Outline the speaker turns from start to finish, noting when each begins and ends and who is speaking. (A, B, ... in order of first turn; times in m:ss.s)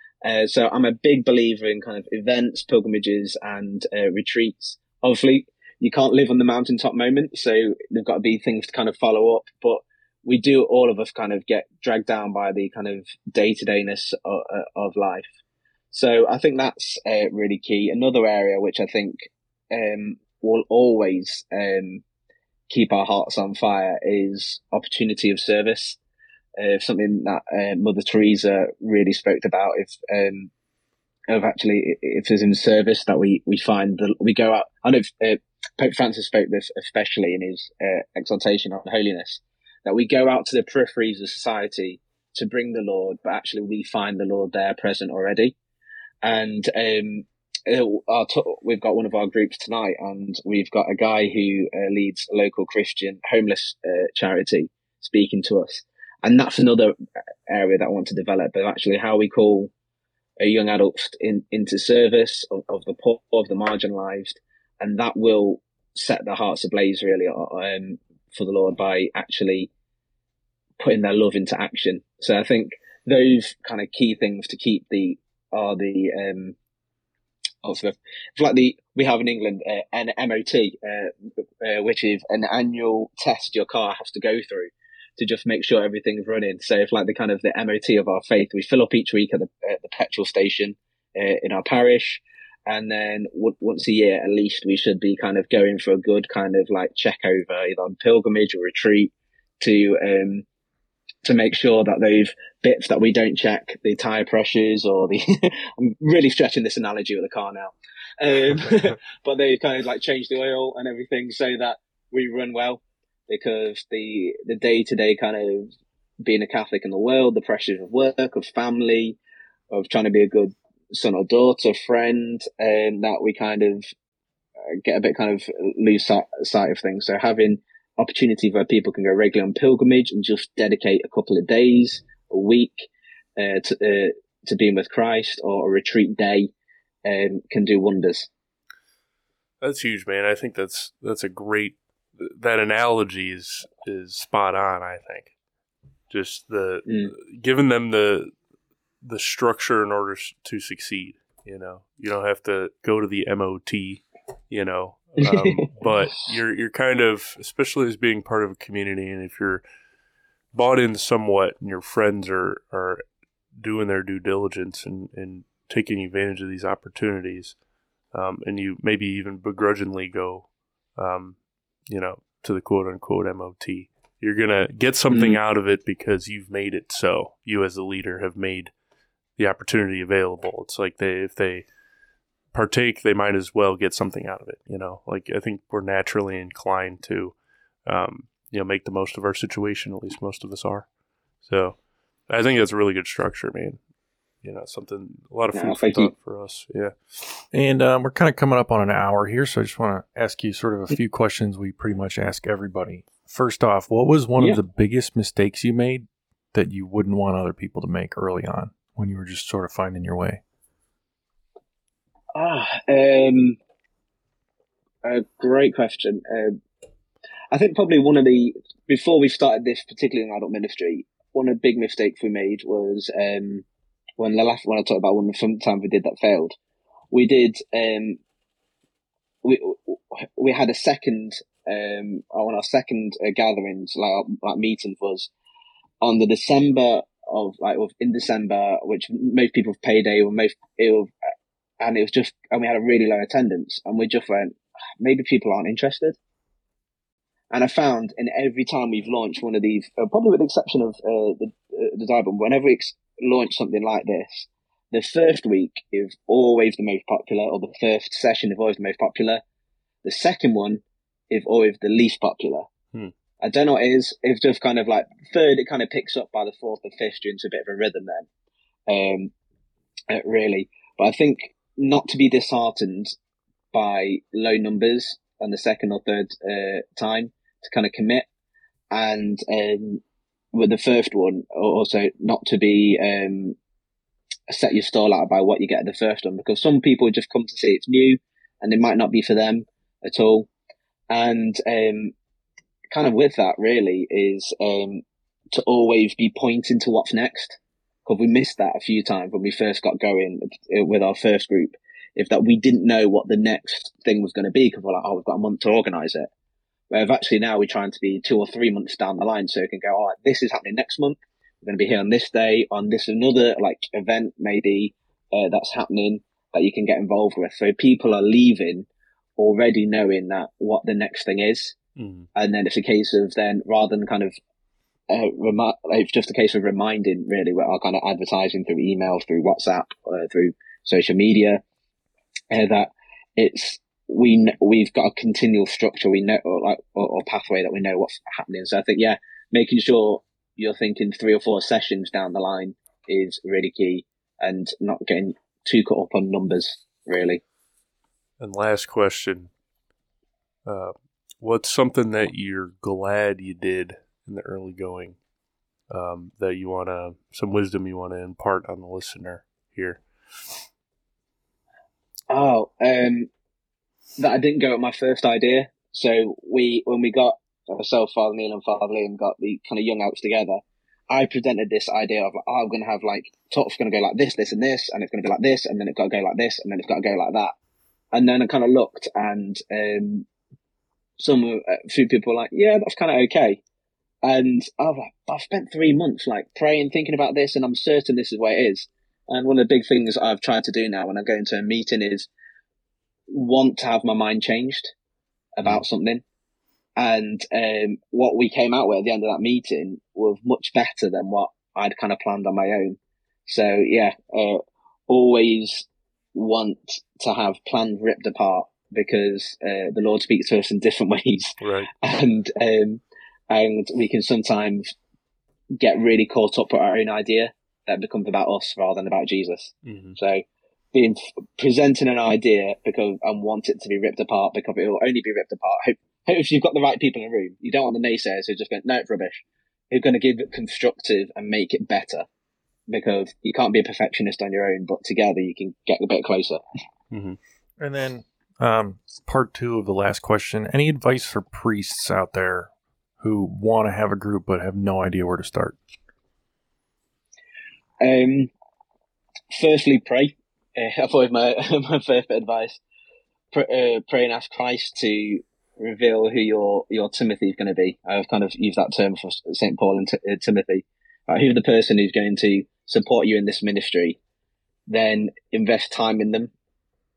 0:00.2-0:15.3 A
0:15.9-0:22.0 A
0:22.7-0:26.0 A
0:26.6-0:30.5 A
0:31.3-0:45.6 A
0:46.2-0:57.0 A
0:57.5-0:59.7 A
1:00.4-1:09.7 A
1:10.8-1:16.6 A
1:17.6-1:40.4 A
1:41.2-1:55.7 A
1:56.2-1:59.2 A
1:59.7-2:03.9 A
2:04.7-2:16.5 A
2:17.0-2:18.3 A
2:19.6-2:25.3 B
2:26.1-2:28.3 B
2:26.9-2:27.1 A
2:29.0-2:39.6 B
2:35.2-2:35.8 A
2:40.5-2:43.0 B
2:43.6-2:47.6 B
2:48.1-2:58.7 B
2:55.1-2:55.4 A
2:59.4-3:01.7 B
3:02.5-3:10.9 B
3:11.4-3:13.8 B
3:14.4-3:17.4 B
3:15.5-3:16.1 A
3:17.5-3:30.4 C
3:32.4-3:33.6 A
3:35.0-3:36.6 A
3:37.5-3:43.6 A
3:44.2-3:46.6 A
3:47.1-3:48.2 A
3:49.4-3:55.3 A
3:56.0-4:01.1 A
4:01.8-4:06.2 A
4:07.5-4:19.4 A
4:20.0-4:22.7 A
4:23.4-4:28.3 A
4:28.9-4:29.3 A
4:30.1-4:33.2 A
4:33.7-4:38.3 A
4:38.9-4:40.0 A
4:40.5-4:43.6 A
4:44.5-4:50.5 A
4:51.1-4:52.1 A
4:52.9-5:06.3 A
5:06.9-5:21.8 A
5:22.0-5:22.3 B
5:22.4-5:24.4 A
5:25.1-5:31.6 A
5:32.5-5:47.4 A
5:48.4-5:49.5 B
5:50.7-5:55.2 B
5:55.9-6:00.0 B
6:02.3-6:03.3 A
6:04.2-6:17.5 A
6:18.1-6:20.3 A
6:21.2-6:23.6 A
6:24.2-6:32.3 A
6:33.3-6:34.9 A
6:35.6-6:36.2 A
6:37.0-6:54.9 A
6:51.6-6:51.9 B
6:55.8-7:12.3 A
6:59.8-7:00.2 B
7:12.9-7:16.6 A
7:17.1-7:17.4 B
7:17.8-7:25.8 C
7:28.0-7:28.5 A
7:29.5-7:32.8 A
7:33.5-7:44.2 A
7:44.9-7:46.5 A